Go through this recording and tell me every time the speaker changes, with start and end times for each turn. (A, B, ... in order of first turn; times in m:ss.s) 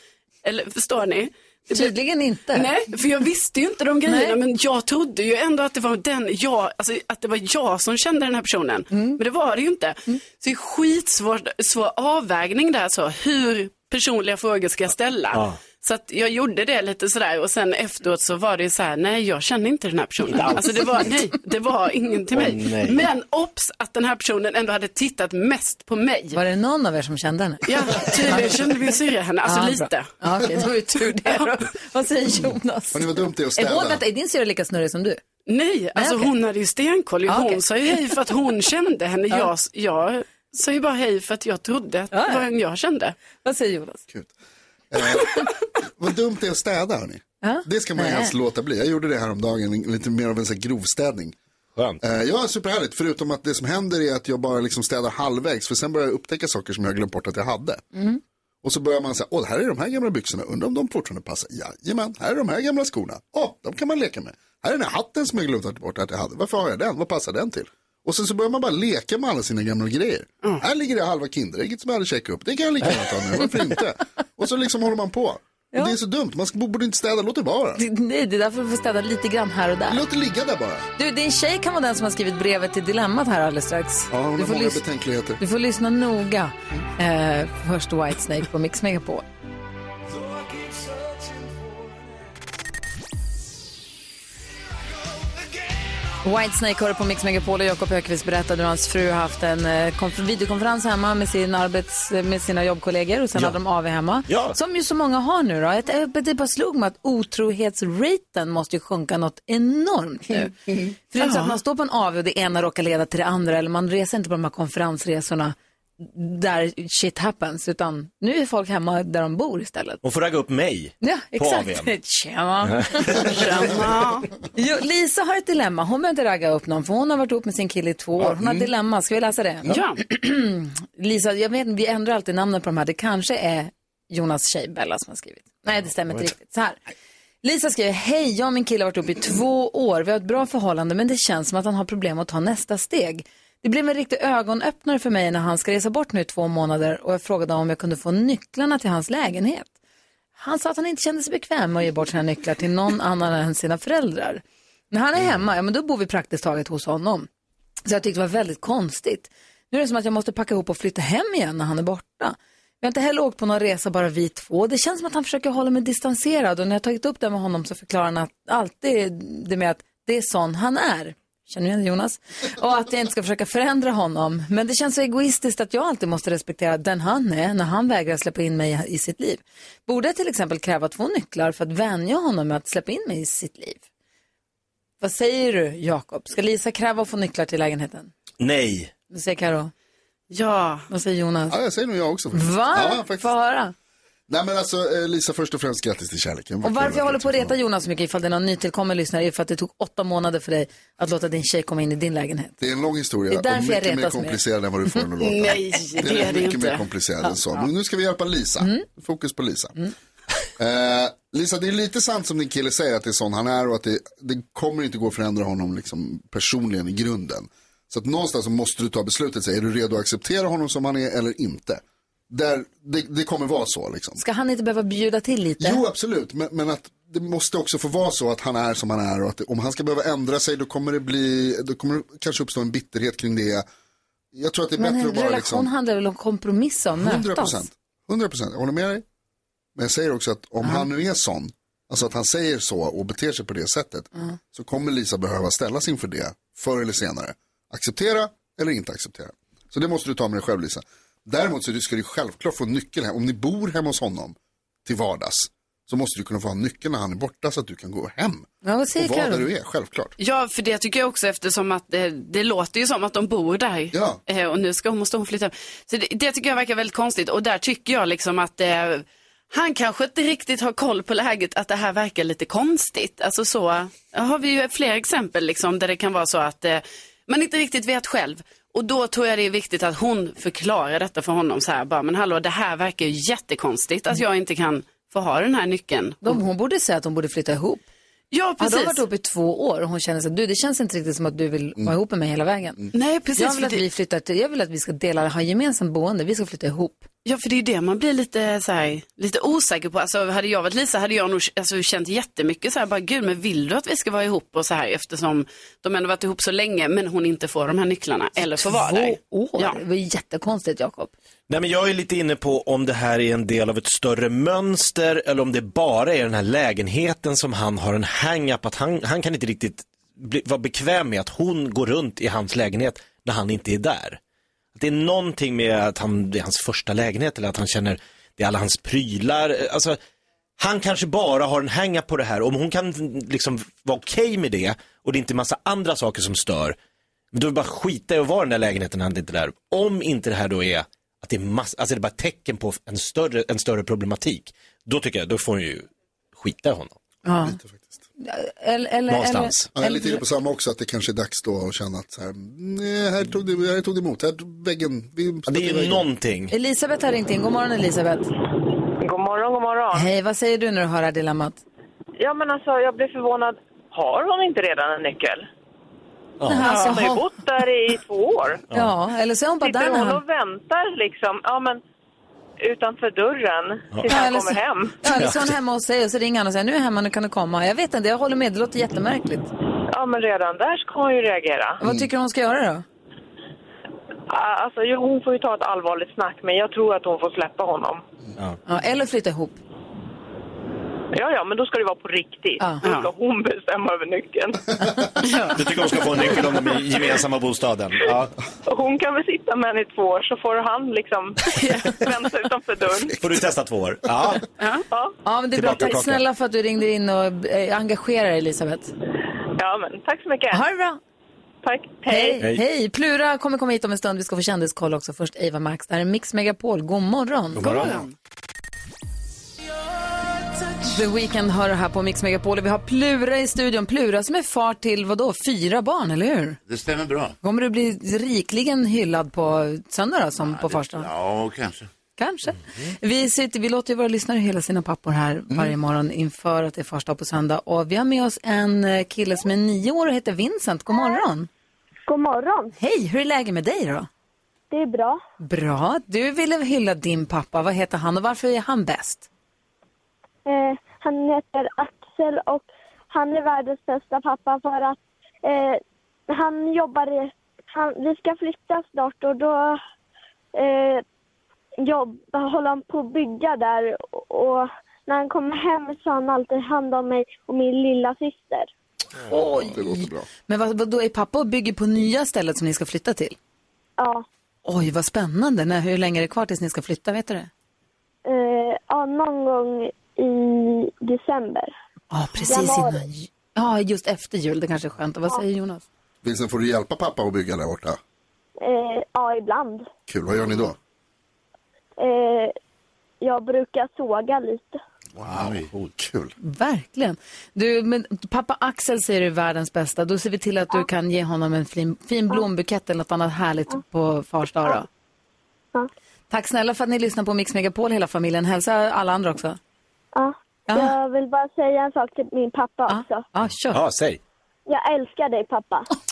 0:00.4-0:01.9 A
0:01.7-0:02.7 B
0:02.5-0:26.4 A
0:04.0-0:04.4 B
0:08.9-0:09.2 B
0:15.3-0:15.6 C
0:20.3-0:20.8 C
0:22.3-0:23.1 C
0:26.3-0:28.5 B
0:27.6-0:30.1 A
0:29.4-0:35.2 B
0:32.9-0:34.0 D
0:35.5-0:43.2 A
0:36.0-0:36.3 B
0:37.3-0:37.6 B
0:42.1-0:42.4 B
0:43.4-0:44.0 B
0:44.9-0:45.3 D
0:46.0-0:51.4 D
0:47.4-0:48.3 B
0:52.0-0:57.8 D
0:57.9-0:58.2 B
0:58.6-1:17.8 D
1:17.8-1:20.0 B
1:19.9-1:20.8 D
1:21.0-1:24.8 B
1:24.1-1:25.4 D
1:25.4-1:29.2 B
1:36.2-1:50.6 B
1:44.3-1:44.6 C
1:51.1-2:00.0 B
1:51.2-1:51.5 A
2:00.0-2:01.9 C
2:01.0-2:03.4 B
2:03.2-2:04.3 A
2:04.5-2:16.8 B
2:09.7-2:10.0 A
2:17.4-2:29.7 B
2:30.4-2:37.3 B
2:37.8-3:03.8 B
3:05.0-3:08.1 B
3:08.4-3:08.9 C
3:09.1-3:09.7 B
3:10.3-3:10.9 A
3:10.9-3:11.6 B
3:11.5-3:13.3 D
3:12.3-3:13.7 B
3:14.3-3:17.6 D
3:16.6-3:22.5 B
3:22.6-3:29.7 D
3:23.3-3:24.4 B
3:25.2-3:26.8 A
3:28.6-3:28.8 B
3:30.6-3:44.2 D
3:44.2-3:45.8 B
3:45.6-3:53.6 D
3:54.3-3:55.7 D
3:54.8-3:57.6 B
3:57.0-3:59.0 D
3:59.8-4:20.1 D
4:18.6-4:19.5 B
4:20.2-4:46.4 A
4:23.9-4:24.2 D
4:46.2-4:47.8 B
4:48.3-4:49.0 A
4:48.6-4:52.8 B
4:52.9-4:53.8 A
4:53.4-4:57.0 B
4:57.2-5:09.8 A
5:08.4-5:11.1 B
5:11.5-5:24.2 C
5:24.7-5:30.0 C
5:30.6-5:36.8 C
5:37.3-5:47.0 C
5:47.2-5:47.6 B
5:47.4-5:48.0 D
5:48.2-5:50.2 B
5:49.1-5:49.7 C
5:49.7-5:56.0 D
5:55.5-5:56.5 C
5:56.5-5:58.3 B
5:59.0-6:00.1 E
5:59.9-6:01.6 B
6:02.2-6:05.4 E
6:06.4-6:07.0 C
6:06.5-6:07.2 B
6:06.5-6:08.6 E
6:08.7-6:10.2 B
6:09.6-6:11.8 E
6:12.6-6:14.9 E
6:13.9-6:14.2 C
6:14.1-6:19.5 B
6:15.1-6:15.5 C
6:19.9-6:21.8 E
6:21.8-6:22.8 B
6:24.3-6:28.0 E
6:28.6-6:29.6 B
6:31.1-6:34.6 E
6:32.8-6:33.1 A
6:35.5-6:38.3 C
6:38.6-6:43.2 E
6:43.2-6:44.4 C
6:44.9-6:45.2 E
6:45.2-6:48.9 B
6:45.5-6:46.2 C
6:49.6-6:50.6 E
6:50.5-6:51.0 B
6:51.6-6:52.4 E
6:52.1-6:58.0 B
6:57.5-6:58.0 C
6:57.7-6:58.0 A
7:00.9-7:06.6 B
7:06.7-7:07.4 F
7:07.4-7:11.1 B
7:10.4-7:11.9 F
7:12.2-7:21.5 B
7:22.1-7:22.7 G
7:22.8-7:24.1 B
7:24.7-7:25.2 G
7:25.4-7:29.2 B
7:30.4-7:39.8 G
7:40.5-7:41.0 G
7:41.8-7:48.7 G
7:49.2-7:53.4 B
7:49.5-7:50.3 D
7:54.0-7:54.2 G
7:54.6-7:57.5 B
7:58.2-8:01.7 G
8:02.1-8:05.8 B
8:02.5-8:03.0 G
8:06.2-8:08.0 D
8:08.6-8:09.9 G
8:10.1-8:10.8 D
8:12.0-8:12.5 G
8:13.2-8:14.8 G
8:15.2-8:16.3 D
8:15.3-8:15.7 F
8:16.4-8:24.9 B
8:26.3-8:29.6 B
8:30.1-8:33.2 G
8:30.7-8:30.9 B
8:32.9-8:33.8 B
8:33.7-8:34.2 C
8:34.7-8:35.9 G